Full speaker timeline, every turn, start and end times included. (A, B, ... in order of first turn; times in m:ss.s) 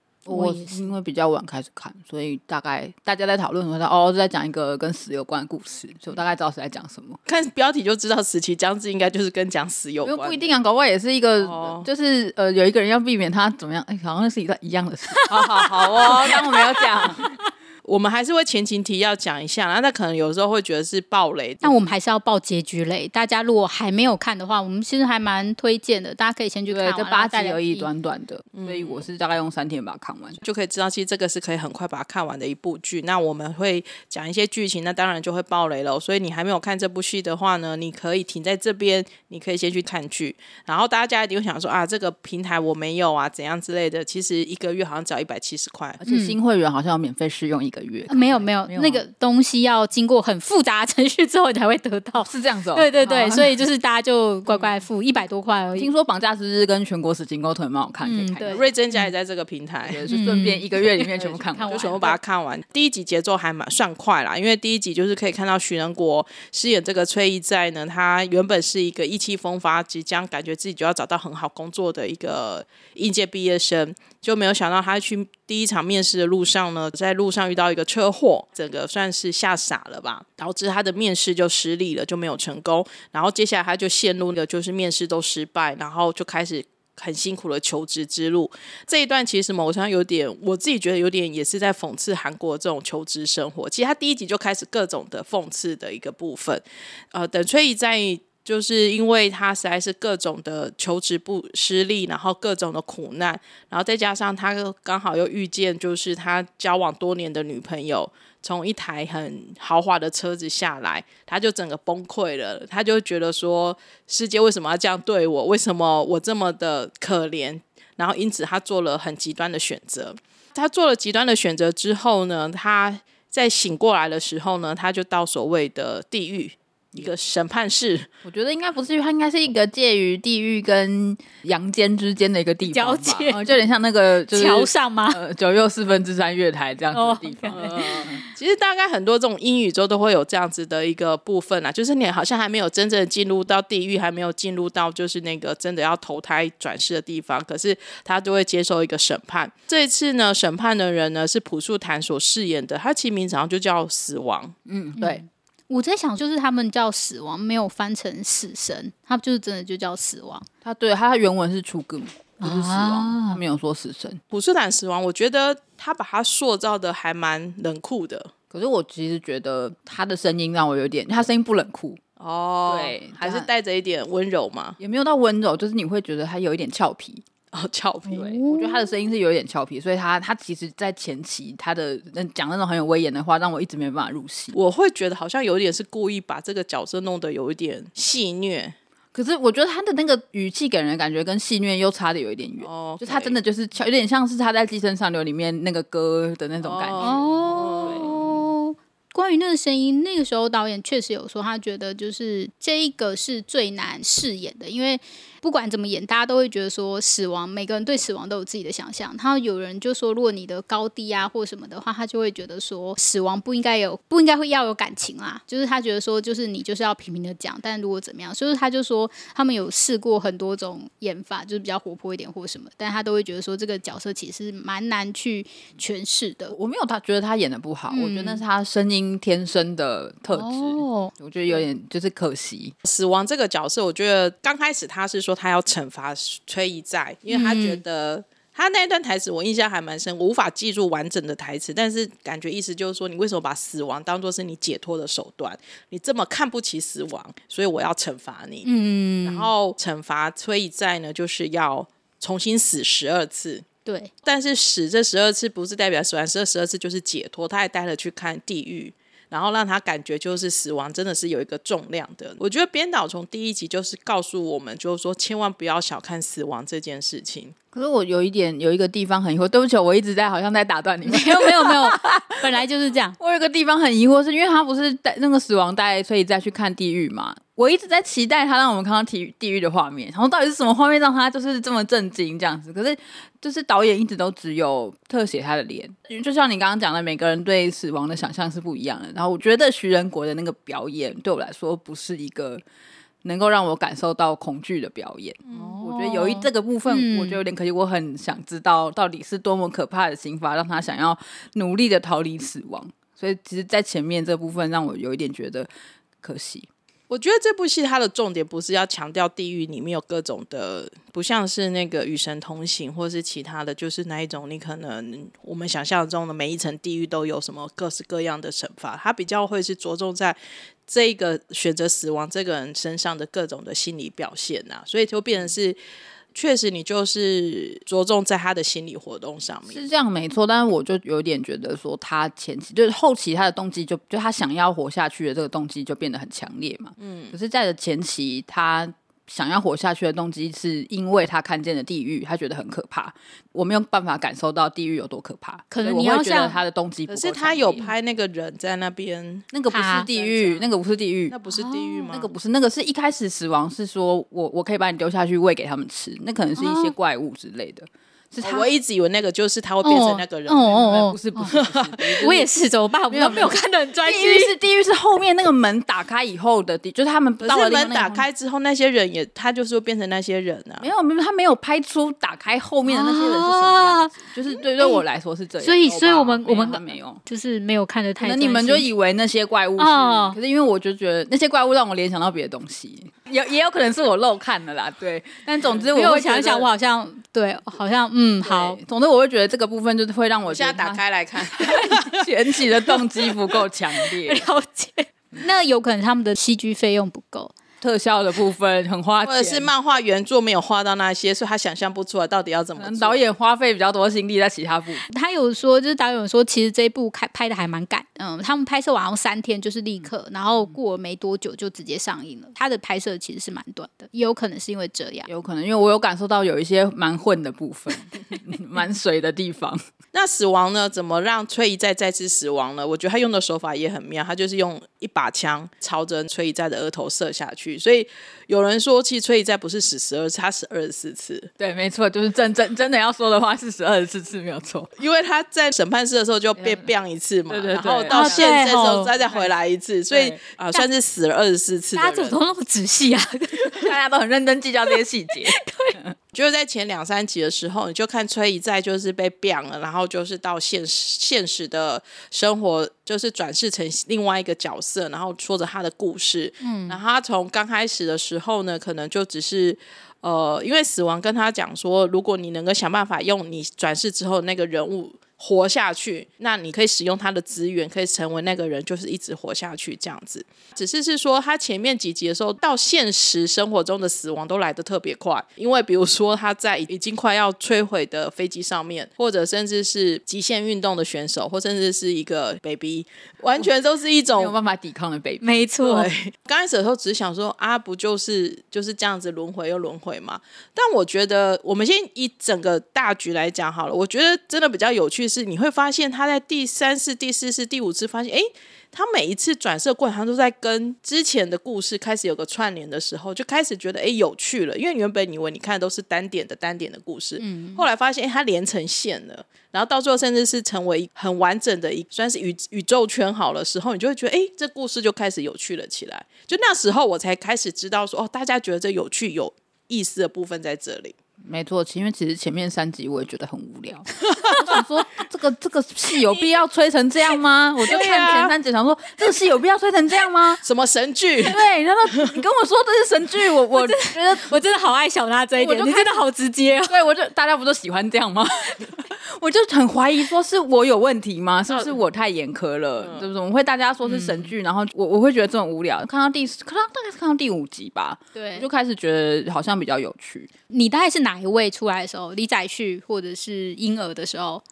0:00.2-0:07.2 A
0:00.3-0:00.9 B
0:07.3-0:10.5 C
0:10.0-0:17.2 A
0:11.4-0:11.9 C
0:15.1-0:17.4 B
0:17.8-0:21.7 C
0:21.6-0:27.9 B
0:26.7-0:30.4 A
0:28.5-0:29.1 C
0:30.4-0:46.0 C
0:46.0-0:49.0 A
0:46.1-0:46.4 B
0:48.1-0:55.9 B
0:52.2-0:53.6 A
0:55.8-0:58.7 A
0:58.0-0:59.0 B
0:58.4-1:00.0 C
0:59.8-1:02.0 A
1:00.1-1:02.2 B
1:01.6-2:08.1 C
2:08.2-2:18.2 A
2:12.6-2:13.6 B
2:14.3-2:15.2 B
2:16.9-2:18.3 B
2:17.5-2:34.6 C
2:34.6-2:35.2 A
2:35.0-2:40.5 B
2:40.6-2:44.2 A
2:42.4-2:43.4 B
2:44.3-2:48.3 C
2:48.5-2:52.0 A
2:52.2-2:54.8 C
2:52.7-2:53.5 A
2:54.8-2:57.2 A
2:57.5-2:58.3 C
2:58.1-2:59.0 B
2:58.1-3:04.5 A
3:04.5-3:08.8 C
3:09.1-3:18.4 A
3:12.6-3:13.4 C
3:16.6-3:18.2 C
3:17.0-3:46.6 B
3:46.5-3:52.7 A
3:47.9-3:48.4 B
3:50.3-3:51.1 B
3:52.8-4:08.7 C
3:57.3-3:57.8 B
4:08.6-4:09.5 B
4:09.2-4:13.6 C
4:13.8-4:14.1 B
4:14.2-4:27.5 C
4:27.7-4:32.6 A
4:31.0-4:33.2 B
4:33.2-4:52.6 A
4:53.2-5:05.7 A
4:55.4-4:57.4 B
5:06.2-5:06.7 A
5:07.1-5:25.8 C
5:26.3-5:29.8 C
5:29.7-5:47.9 A
5:37.0-5:37.3 C
5:45.7-5:46.6 B
5:47.1-5:50.7 C
5:49.5-5:51.4 A
5:49.7-5:50.1 B
5:51.3-5:52.3 C
5:51.5-5:52.1 B
5:52.1-5:58.7 A
5:56.6-5:56.9 B
5:58.4-6:00.8 C
5:59.8-6:01.6 B
6:00.6-6:02.5 A
6:01.5-6:02.2 C
6:02.2-6:04.5 B
6:03.1-6:08.2 A
6:07.4-6:10.9 C
6:10.8-6:17.2 A
6:12.8-6:15.0 B
6:15.6-6:18.9 B
6:18.2-6:26.7 A
6:19.8-6:20.4 B
6:25.9-6:28.8 B
6:28.4-6:34.5 A
6:30.5-6:33.0 C
6:33.9-6:37.5 B
6:37.8-6:39.7 A
6:39.2-6:43.2 C
6:42.8-6:45.0 A
6:45.1-6:55.3 B
6:55.3-6:59.8 A
7:00.1-7:11.5 C
7:11.6-7:14.9 A
7:15.0-7:22.4 C
7:16.6-7:16.9 A
7:17.5-7:18.6 A
7:18.1-7:19.1 B
7:20.1-7:20.4 A
7:21.9-7:23.9 B
7:23.7-7:26.1 A
7:24.9-7:26.0 B
7:26.3-8:04.5 C
7:36.6-7:37.0 B
8:04.3-8:05.4 A
8:05.4-8:06.1 B
8:05.8-8:41.1 C
8:27.4-8:27.8 B
8:41.4-8:50.6 A
8:47.8-8:48.5 C
8:50.6-8:52.3 C
8:51.4-8:54.6 A
8:53.7-8:57.0 B
8:55.6-8:56.2 A
8:56.9-9:10.5 A
9:01.7-9:01.9 C
9:03.0-9:03.3 C
9:04.0-9:04.5 B
9:08.3-9:08.7 B
9:10.7-9:14.6 B